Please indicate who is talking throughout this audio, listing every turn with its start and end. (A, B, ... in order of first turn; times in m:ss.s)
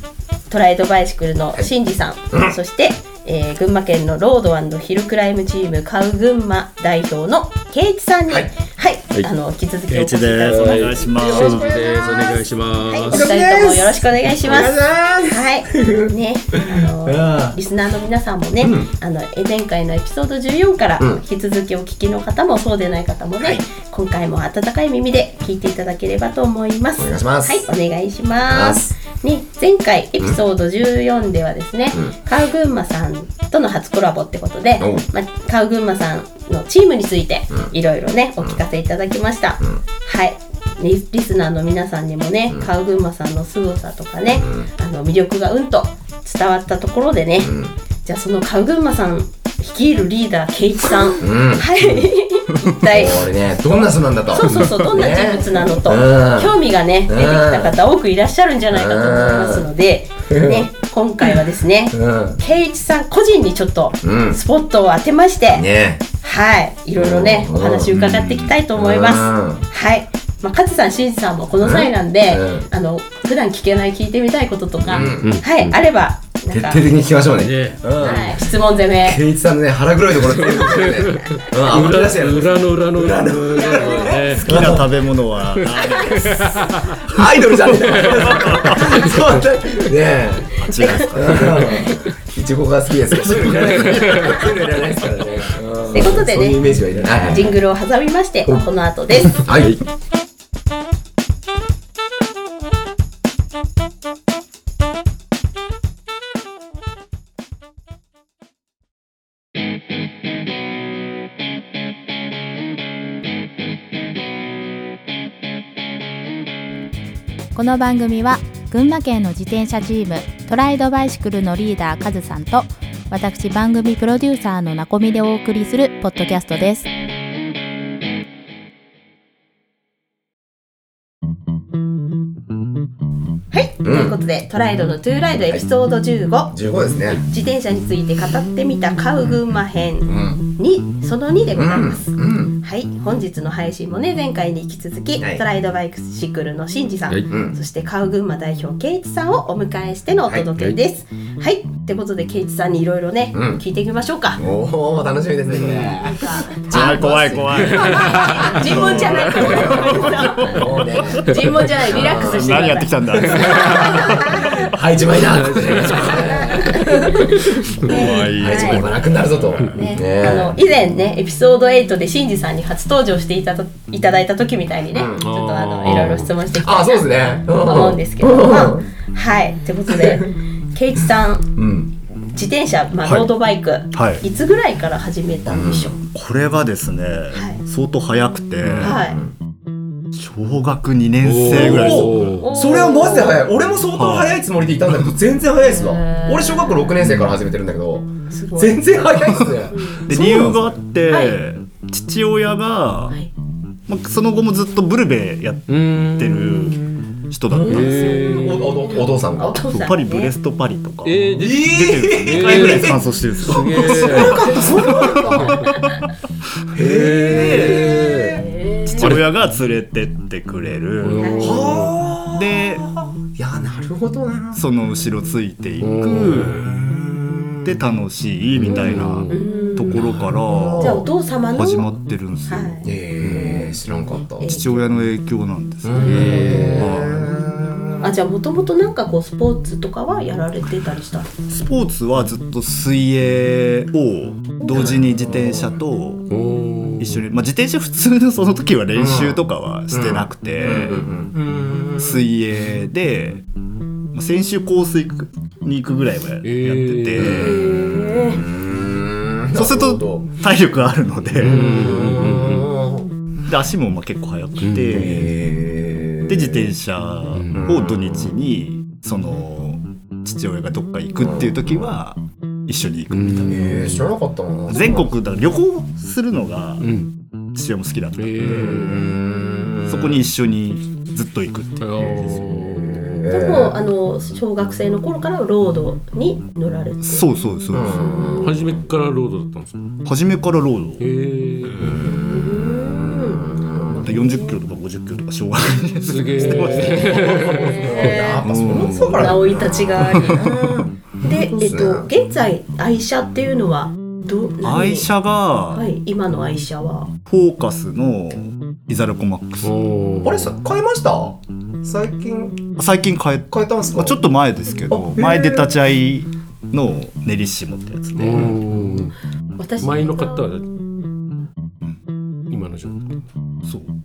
0:00.5-1:16.8 A
0:09.9-0:11.8 B
0:10.4-0:13.3 C
0:13.1-0:17.6 D
0:18.6-0:18.9 D
0:27.0-0:27.6 D
0:28.5-0:28.9 D
0:34.8-0:35.0 D
0:44.4-0:44.7 D
0:47.4-0:47.7 D
0:51.2-0:51.7 D
0:52.8-0:56.6 D
0:57.1-0:57.7 D
0:58.7-0:59.7 D
1:00.3-1:00.6 D
1:01.9-1:02.4 D
1:04.0-1:04.4 D
1:05.5-1:06.0 D
1:07.0-1:09.6 D
1:11.6-1:12.7 D
1:14.8-1:15.4 D
1:15.2-1:15.7 C
1:16.5-1:18.5 D
1:17.4-1:18.1 C
1:18.0-1:19.2 A
1:19.0-1:24.8 D
1:20.3-1:24.9 C
1:24.2-1:29.1 B
1:25.5-1:27.0 C
1:25.8-1:26.1 A
1:27.0-1:37.6 D
1:27.8-1:28.2 C
1:28.7-1:29.1 A
1:30.6-1:31.8 B
1:30.7-1:32.0 A
1:33.3-1:34.1 B
1:33.7-1:34.3 C
1:35.9-1:36.7 A
1:37.2-1:39.4 A
1:39.2-1:39.8 D
1:57.5-2:06.9 E
2:13.5-2:16.5 A
2:13.8-2:14.2 D
2:16.5-2:17.2 D
2:17.2-2:34.4 A
2:20.1-2:20.4 D
2:21.6-2:22.5 D
2:25.2-2:25.4 D
2:27.3-2:27.6 D
2:33.3-2:33.6 D
2:34.4-2:50.6 D
2:36.0-2:37.1 A
2:36.7-2:41.2 B
2:37.5-2:38.5 C
2:37.7-2:44.7 A
2:41.9-2:44.8 B
2:45.1-2:46.6 C
2:45.6-2:45.8 B
2:46.0-2:48.9 A
2:47.8-2:49.8 B
2:49.7-3:01.5 A
2:54.9-2:55.2 D
2:55.2-2:56.3 C
2:55.8-2:58.9 D
2:59.9-3:00.2 D
3:01.6-3:01.9 D
3:02.3-3:06.0 A
3:03.0-3:03.3 B
3:03.9-3:04.2 B
3:05.5-3:06.0 D
3:06.1-3:09.0 B
3:07.3-3:07.6 A
3:08.6-3:09.0 C
3:08.8-3:09.2 A
3:08.8-3:09.3 D
3:10.1-3:12.4 B
3:11.2-3:12.5 C
3:11.5-3:20.8 D
3:12.4-3:13.4 A
3:14.0-3:14.4 B
3:15.6-3:17.0 A
3:17.1-3:17.3 B
3:18.3-3:18.9 A
3:19.2-3:23.2 B
3:19.7-3:20.5 A
3:21.1-3:21.4 A
3:23.9-3:28.3 B
3:25.7-3:26.7 C
3:27.5-3:29.6 D
3:27.6-3:28.9 C
3:27.7-3:30.3 A
3:29.7-3:35.7 B
3:31.0-3:34.6 C
3:31.4-3:33.0 D
3:33.8-3:35.7 D
3:34.1-3:36.0 A
3:36.7-3:38.5 D
3:36.8-3:38.4 C
3:37.2-3:38.0 B
3:37.6-3:39.1 A
3:38.9-3:41.6 B
3:39.0-3:39.3 C
3:41.0-3:42.0 C
3:41.2-3:41.6 A
3:41.4-3:44.6 D
3:42.3-3:42.8 B
3:44.5-3:46.7 B
3:45.8-3:46.6 C
3:46.4-3:47.7 D
3:47.6-3:53.7 B
3:48.6-3:49.2 D
3:48.6-3:49.4 C
3:49.3-3:50.0 A
3:49.8-3:51.1 D
3:50.8-3:51.9 A
3:52.5-3:53.8 A
3:52.8-3:54.6 D
3:54.4-3:54.8 A
3:54.4-3:57.4 B
3:55.8-3:58.2 D
3:56.0-3:57.1 C
3:58.0-4:01.3 A
4:01.5-4:06.3 B
4:04.7-4:05.8 D
4:06.3-4:07.2 C
4:07.0-4:11.1 B
4:09.0-4:09.4 D
4:09.9-4:12.2 D
4:12.0-4:13.4 B
4:14.1-4:17.8 B
4:16.4-4:17.4 C
4:17.2-4:20.2 D
4:17.3-4:18.4 A
4:19.5-4:21.9 B
4:21.4-4:23.1 D
4:21.4-4:22.7 C
4:23.5-4:25.3 B
4:24.6-4:25.3 C
4:24.9-4:26.7 D
4:26.3-4:33.9 B
4:27.4-4:27.6 C
4:27.5-4:28.3 D
4:31.2-4:31.5 D
4:33.1-4:34.1 C
4:33.5-4:35.1 D
4:34.7-4:36.9 B
4:36.8-4:37.1 C
4:37.5-4:39.1 B
4:38.2-4:39.1 C
4:38.5-4:40.2 D
4:39.9-4:42.6 B
4:41.8-4:43.2 C
4:42.5-4:43.8 D
4:43.2-4:48.5 A
4:47.0-4:48.3 B
4:47.7-4:48.7 D
4:48.4-4:49.9 C
4:50.0-4:51.0 B
4:51.0-4:52.1 C
4:51.9-4:54.1 D
4:52.3-4:53.5 A
4:53.9-4:57.7 B
4:56.1-4:57.9 C
4:56.7-5:05.1 A
4:56.9-5:02.1 D
4:58.4-5:00.8 B
5:04.6-5:05.9 B
5:05.7-5:07.1 A
5:07.2-5:09.7 B
5:09.6-5:10.5 C
5:10.2-5:12.7 D
5:12.8-5:18.6 B
5:13.5-5:14.2 D
5:14.9-5:15.7 D
5:18.2-5:19.1 C
5:19.6-5:20.6 A
5:19.8-5:20.7 C
5:22.5-5:23.2 C
5:23.6-5:23.9 B